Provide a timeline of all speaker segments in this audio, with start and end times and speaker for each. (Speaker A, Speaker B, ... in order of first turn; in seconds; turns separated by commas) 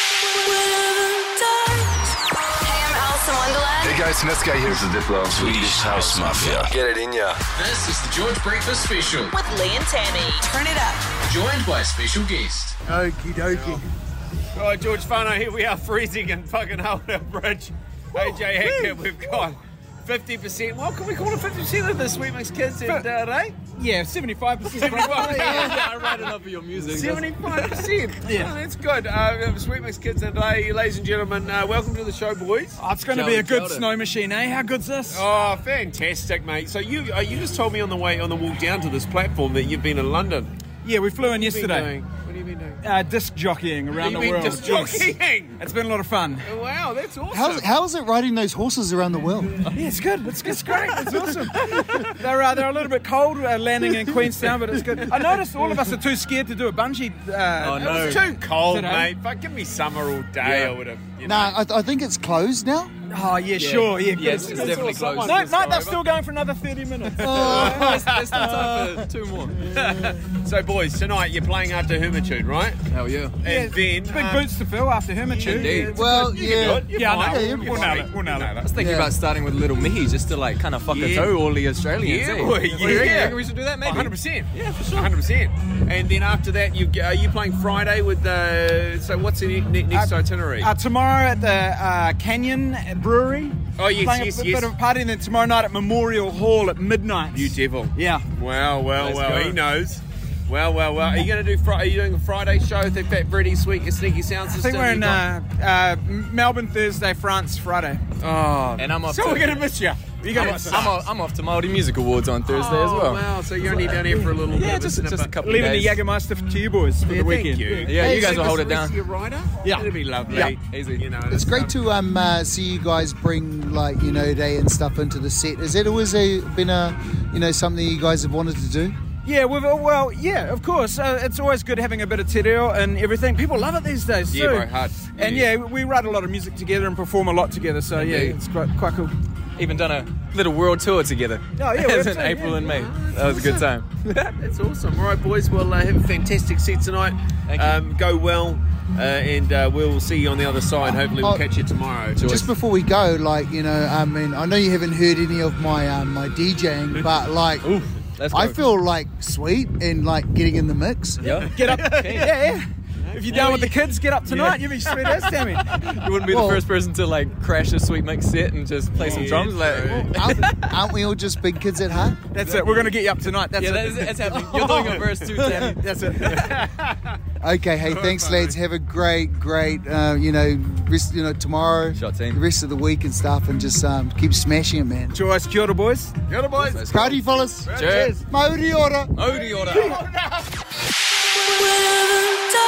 Speaker A: 0.3-4.0, Speaker B: 3.8-7.4, Speaker C: 5.3-6.7, Speaker C: 7.5-9.4, Speaker A: 9.3-11.1, Speaker C: 11.2-12.8, Speaker D: 12.8-13.9, Speaker E: 13.5-13.8, Speaker E: 14.5-23.6, Speaker F: 18.2-19.0, Speaker F: 23.7-25.8, Speaker E: 24.7-32.8, Speaker G: 25.1-27.9, Speaker F: 28.2-28.5, Speaker F: 32.8-35.2, Speaker G: 33.1-33.9, Speaker E: 35.1-40.5, Speaker F: 40.8-41.9, Speaker E: 41.2-42.8, Speaker F: 42.8-46.5, Speaker E: 43.9-45.6, Speaker E: 46.4-47.7, Speaker D: 47.3-49.5, Speaker F: 49.7-59.1, Speaker E: 51.7-52.0, Speaker G: 57.6-58.3, Speaker E: 57.8-61.6, Speaker G: 60.4-60.8, Speaker D: 61.2-62.9, Speaker F: 63.1-67.9, Speaker G: 63.5-65.5, Speaker E: 64.3-66.0, Speaker D: 67.2-68.1, Speaker G: 67.3-69.7, Speaker E: 67.3-68.4, Speaker E: 69.6-72.8, Speaker G: 72.9-73.4, Speaker E: 73.4-74.5, Speaker F: 73.5-75.9, Speaker E: 75.2-78.7, Speaker G: 75.5-76.1, Speaker D: 75.8-77.8, Speaker F: 76.8-78.6, Speaker G: 78.6-85.1, Speaker D: 78.8-79.1, Speaker E: 80.9-81.4, Speaker E: 82.0-90.7, Speaker F: 82.7-83.1, Speaker F: 89.9-98.3, Speaker E: 93.8-94.7, Speaker E: 97.3-105.2, Speaker F: 99.0-99.6, Speaker F: 104.5-108.0, Speaker E: 108.2-111.1, Speaker G: 108.8-116.0, Speaker F: 110.2-111.0, Speaker E: 112.4-115.3, Speaker F: 115.4-118.0, Speaker E: 117.0-121.8, Speaker G: 117.9-119.0, Speaker F: 119.6-120.5, Speaker G: 120.4-121.0, Speaker D: 121.3-128.9, Speaker F: 129.2-139.1, Speaker E: 134.3-135.5, Speaker G: 138.0-138.4, Speaker G: 139.6-144.3, Speaker F: 141.6-142.7, Speaker E: 142.6-143.6, Speaker E: 144.4-152.2, Speaker G: 147.5-147.8, Speaker D: 150.8-151.4, Speaker G: 152.2-152.5, Speaker D: 152.2-157.7, Speaker G: 157.6-158.6, Speaker D: 158.3-161.2, Speaker E: 161.2-162.3, Speaker G: 161.2-162.3, Speaker F: 161.5-165.6, Speaker E: 163.0-163.9, Speaker G: 163.3-164.9, Speaker G: 165.7-170.8, Speaker D: 166.3-166.6, Speaker E: 169.0-170.1, Speaker F: 169.0-169.5, Speaker D: 169.7-172.2, Speaker F: 172.3-174.7, Speaker G: 172.4-173.0, Speaker G: 173.5-176.0, Speaker E: 174.4-175.3, Speaker F: 175.3-176.5, Speaker E: 176.2-177.2, Speaker D: 177.4-185.2, Speaker E: 177.8-178.6, Speaker G: 181.9-182.4, Speaker F: 185.1-186.1, Speaker E: 186.3-186.9, Speaker G: 186.5-188.2, Speaker D: 186.8-189.1, Speaker E: 187.7-188.0, Speaker F: 187.8-188.2, Speaker G: 189.1-190.0, Speaker E: 189.8-190.3